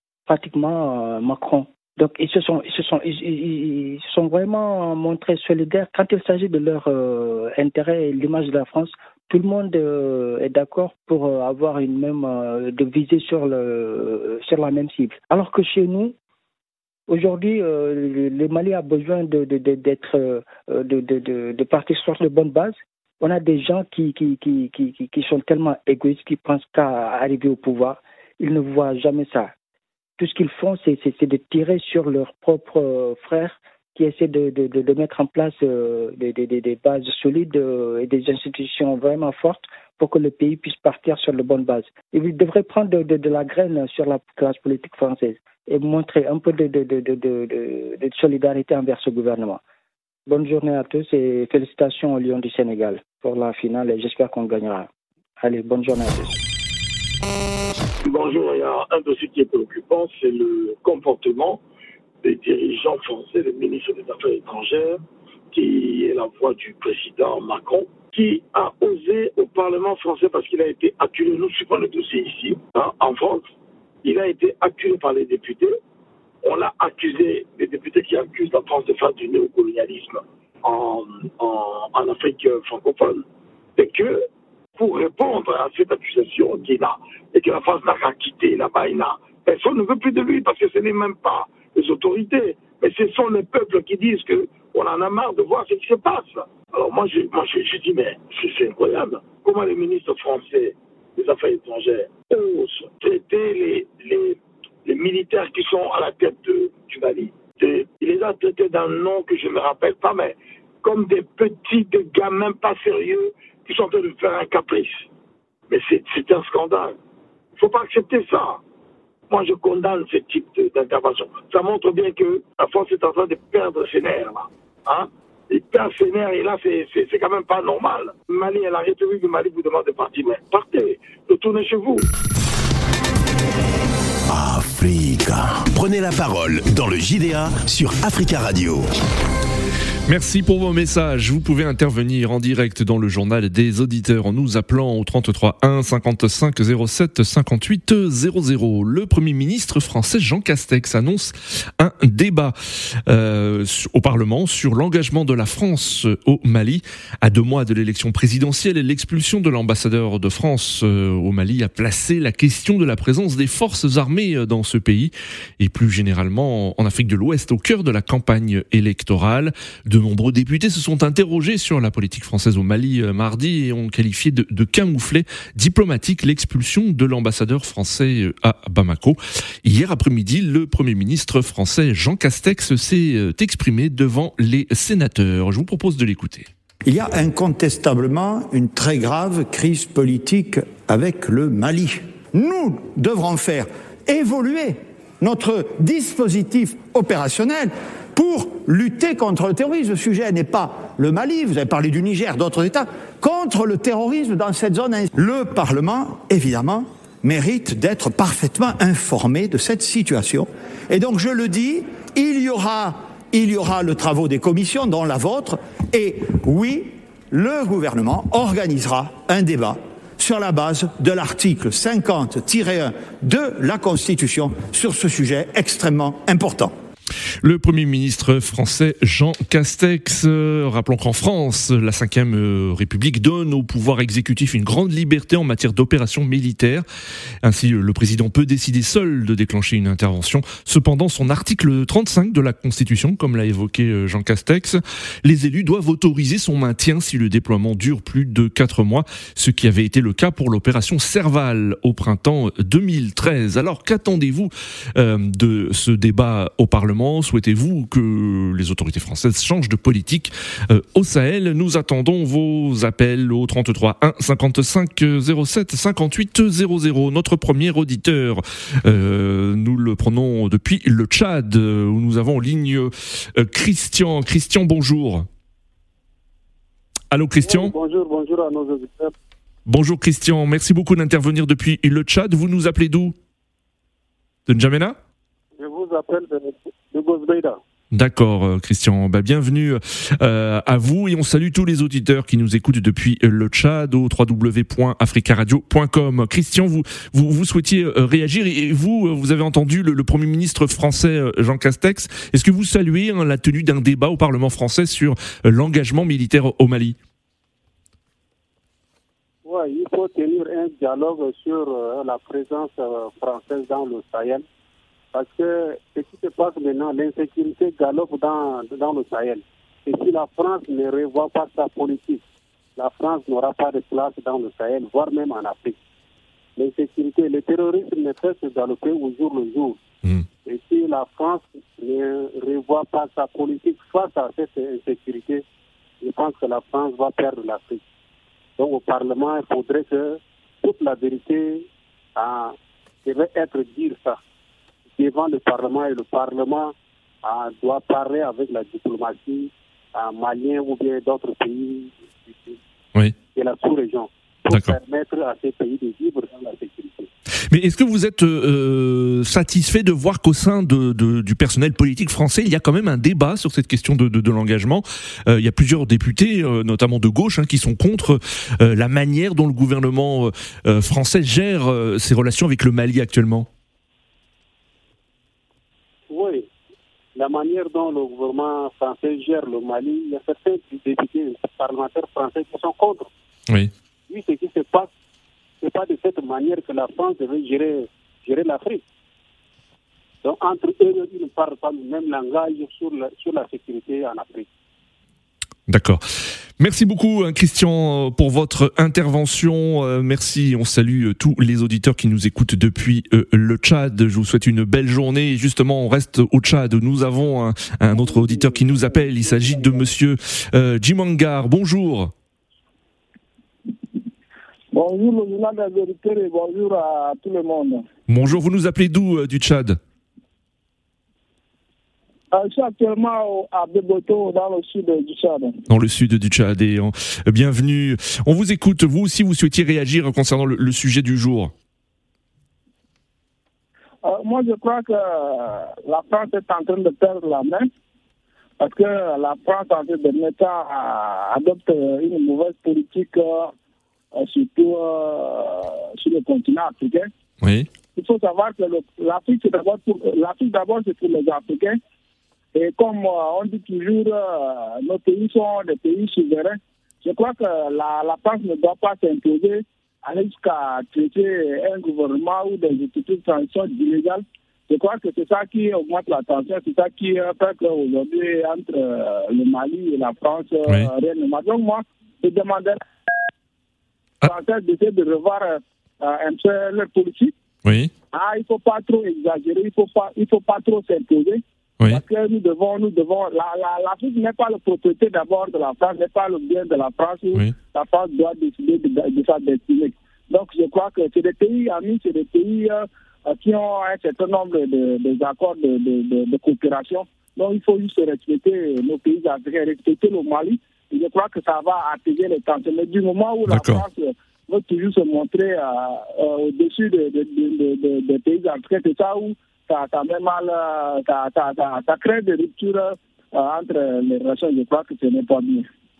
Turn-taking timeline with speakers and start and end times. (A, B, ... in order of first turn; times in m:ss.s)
0:00.3-0:16.1 A
0:17.1-0:29.5 A
0:30.2-0:49.6 A
0:50.3-0:54.9 A
0:55.4-0:56.4 A
0:58.0-1:01.6 B
1:02.2-1:05.0 B
1:05.5-1:13.4 B
1:14.0-1:15.7 B
1:16.4-1:23.2 B
1:23.8-1:24.2 B
1:24.8-1:55.0 B
1:55.7-1:57.0 B
1:57.6-1:58.6 B
1:59.3-2:12.1 B
2:14.3-2:18.9 C
2:20.1-3:06.5 D
3:06.8-3:46.7 E
3:47.4-3:56.8 D
3:57.4-4:35.3 D
4:37.1-4:37.7 D
4:37.4-4:39.1 F
4:39.6-4:43.1 D
4:44.5-4:45.0 D
4:45.6-4:47.6 F
4:47.9-5:07.0 D
5:09.4-5:14.4 F
5:15.1-5:22.2 F
5:22.8-5:25.8 F
5:26.6-5:29.8 F
5:30.4-5:35.4 F
5:36.0-5:37.8 F
5:38.6-5:44.2 F
5:45.0-5:52.6 F
5:53.3-5:57.1 F
5:54.5-5:54.8 D
5:57.5-6:13.5 D
6:16.1-6:16.5 F
6:17.1-6:23.1 F
6:24.1-6:24.9 F
6:25.6-6:28.8 F
6:30.2-6:34.5 F
6:35.7-6:36.0 D
6:36.6-6:52.1 D
6:48.0-6:49.8 G
6:54.7-6:57.8 G
6:58.1-6:59.8 D
7:02.3-7:05.6 G
7:05.7-7:11.5 D
7:14.0-7:17.7 G
7:18.6-7:23.5 G
7:24.1-7:27.1 G
7:27.4-7:27.7 D
7:27.9-7:31.8 G
7:32.5-7:52.8 G
7:54.2-7:57.3 G
7:57.6-7:57.9 D
7:58.1-8:35.7 G
8:23.5-8:23.8 D